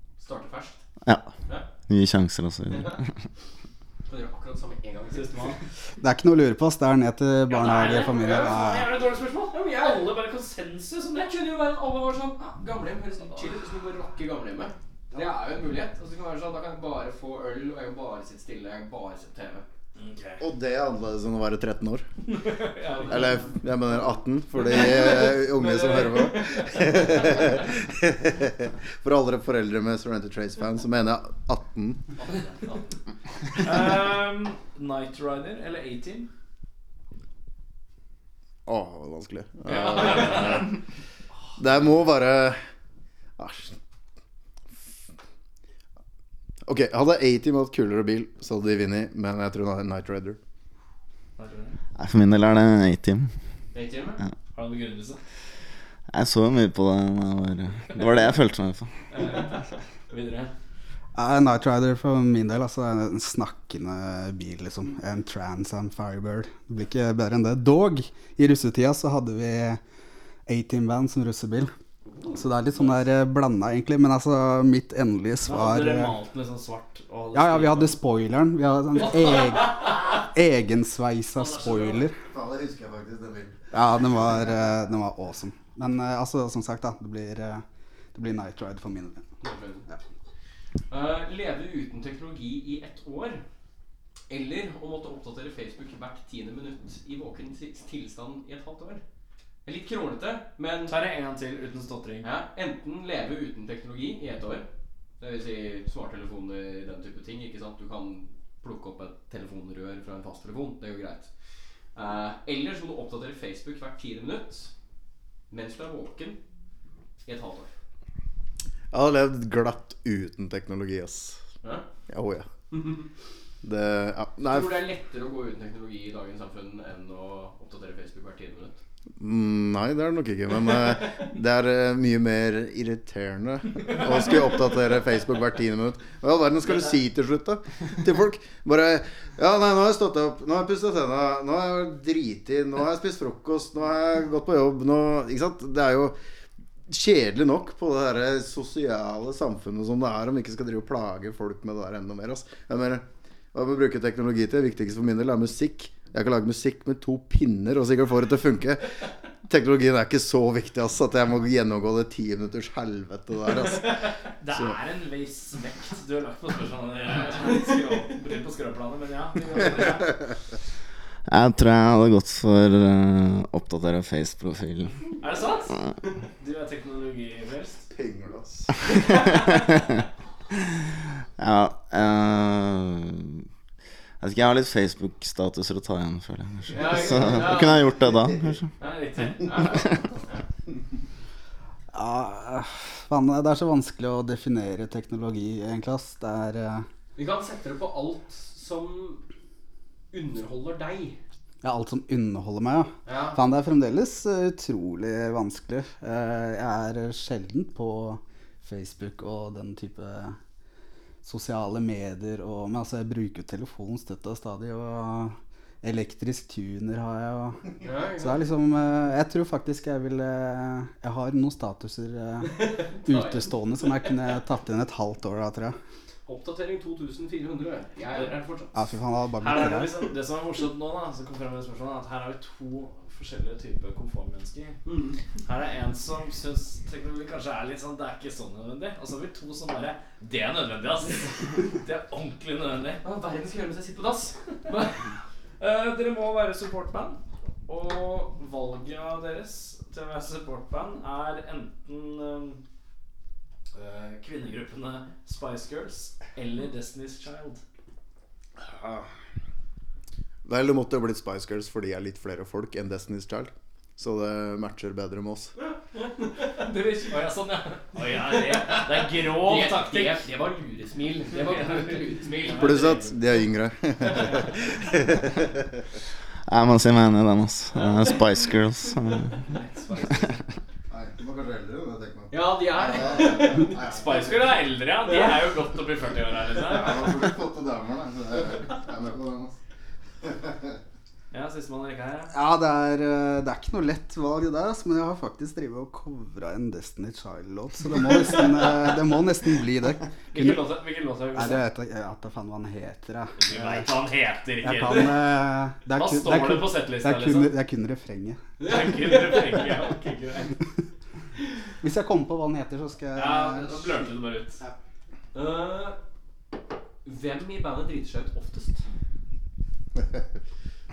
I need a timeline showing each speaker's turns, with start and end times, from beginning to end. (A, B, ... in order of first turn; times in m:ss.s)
0:00.2-0:00.8 A
0:01.0-0:01.3 B
0:01.9-0:03.1 B
0:02.7-0:03.0 A
0:04.1-0:05.6 A
0:05.1-0:05.6 C
0:06.0-0:08.9 D
0:07.5-0:11.3 C
0:07.7-0:08.6 A
0:09.5-0:10.1 A
0:11.2-0:19.6 A
0:20.0-0:20.5 C
0:20.4-0:22.1 E
0:22.3-0:23.4 C
0:22.9-0:23.4 A
0:23.1-0:32.1 E
0:24.6-0:27.4 A
0:32.2-0:32.8 A
0:33.6-0:36.3 C
0:38.7-0:40.8 E
0:39.7-0:40.6 C
0:40.0-0:40.3 A
0:41.6-0:42.6 E
0:43.4-0:43.8 E
0:46.7-0:50.4 E
0:51.4-0:51.8 C
0:52.0-0:53.3 B
0:53.7-0:54.2 A
0:54.6-0:55.2 C
0:56.1-0:58.9 B
0:59.1-1:00.5 C
1:01.2-1:09.8 D
1:10.5-1:11.7 D
1:12.3-1:16.2 D
1:15.4-1:18.0 C
1:17.3-1:22.2 D
1:21.4-1:22.0 C
1:22.3-1:23.6 E
1:23.7-1:29.3 D
1:29.4-1:29.9 A
1:30.9-1:33.4 A
1:34.3-1:39.0 A
1:39.6-1:41.0 A
1:40.9-1:42.3 C
1:42.2-1:44.7 A
1:45.2-1:51.3 A
1:52.0-1:54.7 A
1:55.5-1:56.4 A
1:57.2-1:57.7 A
1:58.9-2:01.4 E
2:02.1-2:02.5 E
2:02.7-2:03.1 A
2:03.6-2:04.9 E
2:04.5-2:08.8 A
2:09.2-2:26.2 E
2:26.9-2:38.9 E
2:39.4-2:44.8 E
2:44.4-2:50.3 C
2:51.3-2:55.2 B
2:55.2-2:55.8 C
2:56.4-2:57.9 C
2:57.9-2:58.9 E
2:59.2-3:00.0 B
3:01.4-3:03.5 B
3:04.2-3:08.7 B
3:06.7-3:08.0 A
3:08.8-3:10.4 A
3:08.9-3:09.5 C
3:09.6-3:10.0 B
3:11.9-3:16.9 D
3:17.2-3:19.2 A
3:20.1-3:21.2 A
3:21.6-3:30.4 D
3:23.1-3:23.4 A
3:31.2-3:45.8 D
3:37.8-3:38.5 A
3:42.4-3:44.4 A
3:46.3-3:48.7 A
3:48.7-3:50.0 D
3:49.4-3:54.8 C
3:54.8-3:55.2 A
3:55.5-4:03.0 C
4:03.0-4:05.0 A
4:05.6-4:12.6 C
4:13.7-4:17.6 C
4:18.6-4:19.1 E
4:20.4-4:25.5 E
4:25.9-4:26.5 A
4:26.5-4:30.2 C
4:28.4-4:33.0 A
4:31.5-4:33.2 C
4:32.5-4:35.8 E
4:36.5-4:39.5 B
4:39.5-4:40.4 C
4:40.9-4:44.5 E
4:42.3-4:43.8 A
4:43.8-4:47.2 C
4:45.1-4:45.4 A
4:46.6-4:49.6 E
4:50.2-4:50.8 E
4:51.3-4:52.3 C
4:52.3-5:03.9 D
5:00.3-5:01.6 C
5:03.4-5:05.2 C
5:04.6-5:08.4 D
5:05.9-5:07.5 C
5:08.6-5:09.6 A
5:08.6-5:10.6 C
5:11.8-5:14.1 D
5:13.2-5:14.6 C
5:15.3-5:16.0 A
5:17.0-5:18.8 A
5:20.0-5:20.4 E